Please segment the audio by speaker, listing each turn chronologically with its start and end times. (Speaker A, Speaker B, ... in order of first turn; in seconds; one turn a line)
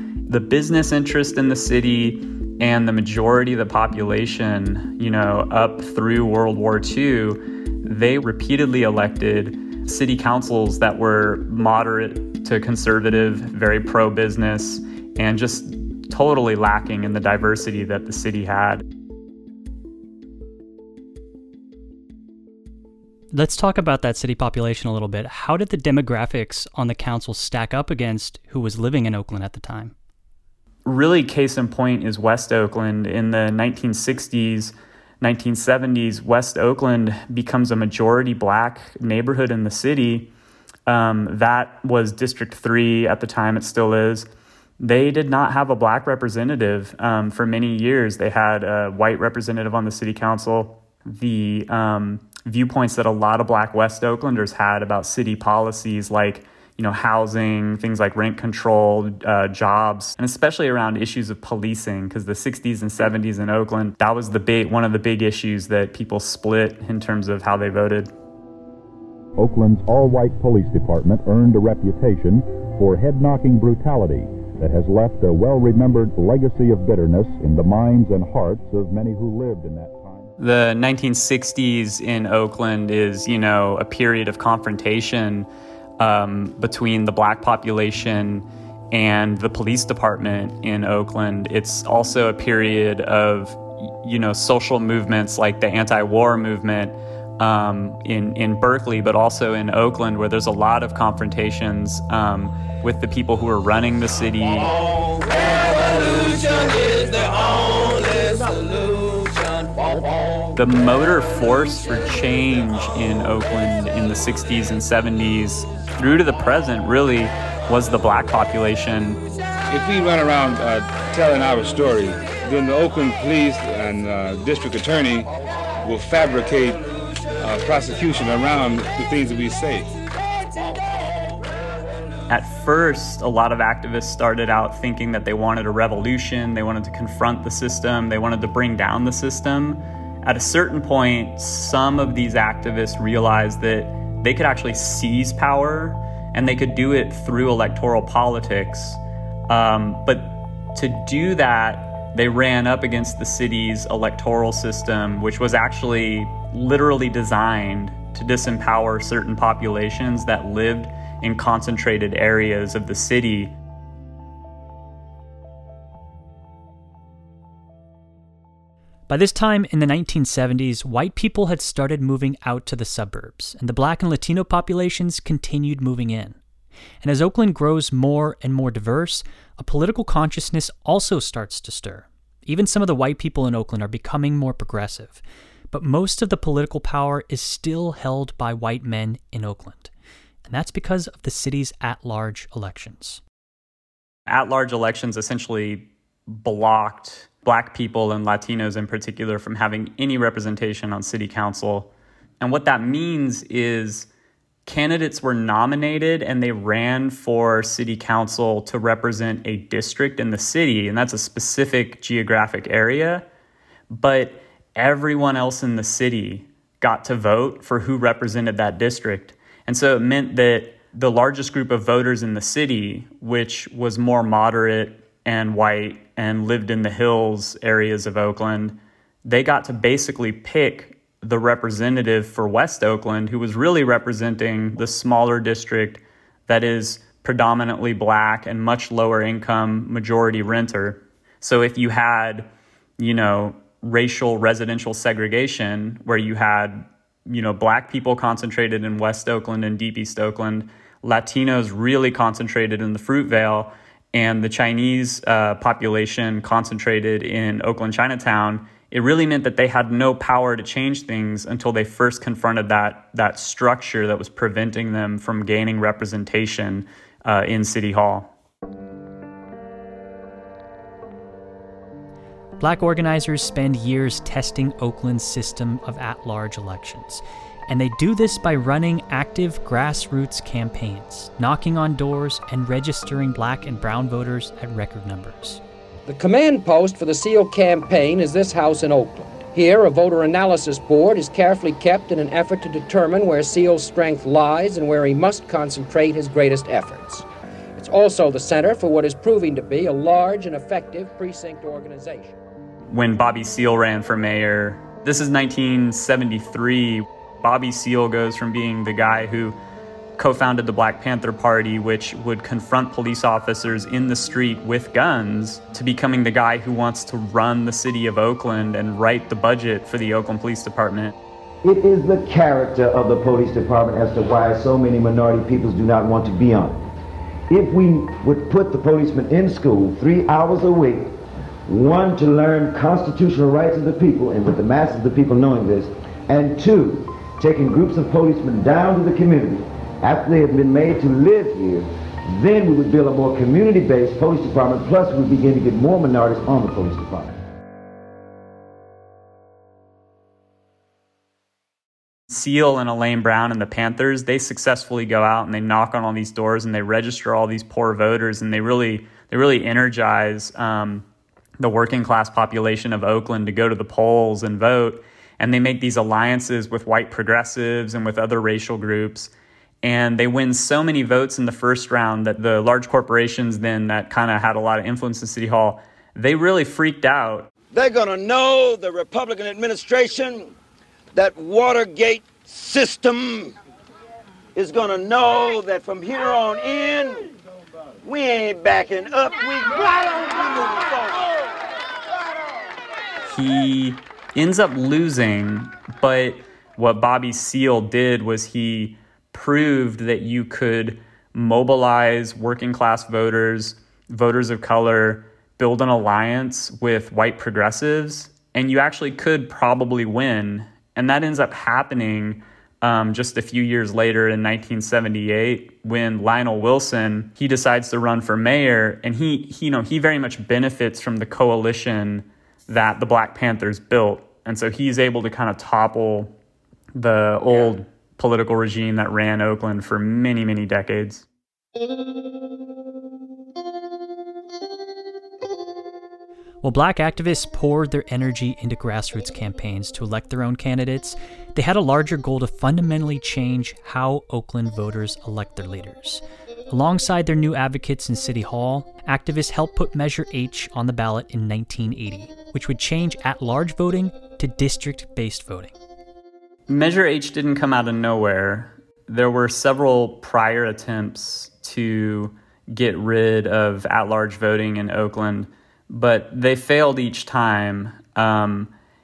Speaker A: 0.3-18.8
Speaker B: 23.3-29.9
Speaker A: 30.8-40.3
Speaker A: 40.9-44.3
Speaker A: 44.8-68.1
Speaker C: 69.4-80.3
Speaker A: 80.4-85.5
Speaker A: 86.0-104.8
Speaker A: 110.5-119.2
Speaker D: 119.7-125.3
Speaker D: 125.8-126.8
Speaker D: 127.4-129.9
Speaker A: 132.3-163.5
Speaker B: 169.1-176.4
Speaker B: 177.0-189.9
Speaker B: 190.4-193.2
Speaker A: 194.3-204.1
Speaker A: 204.7-213.2
Speaker A: 213.9-242.5
Speaker A: 243.0-268.3
Speaker B: 272.6-285.6
Speaker E: 286.1-297.2
Speaker E: 297.8-302.4
Speaker A: 302.9-309.6
Speaker A: 310.2-321.1
Speaker F: 321.7-326.7
Speaker F: 327.5-331.0
Speaker G: 330.3-330.7
Speaker F: 331.7-347.3
Speaker G: 331.8-332.3
Speaker A: 352.3-361.1
Speaker A: 361.6-369.3
Speaker A: 369.8-377.5
Speaker G: 377.7-380.5
Speaker G: 381.1-383.5
Speaker G: 384.5-387.3
Speaker G: 388.0-391.2
Speaker F: 389.0-389.2
Speaker A: 393.2-426.3
Speaker A: 426.9-431.2
Speaker B: 436.6-455.7
Speaker A: 456.7-468.7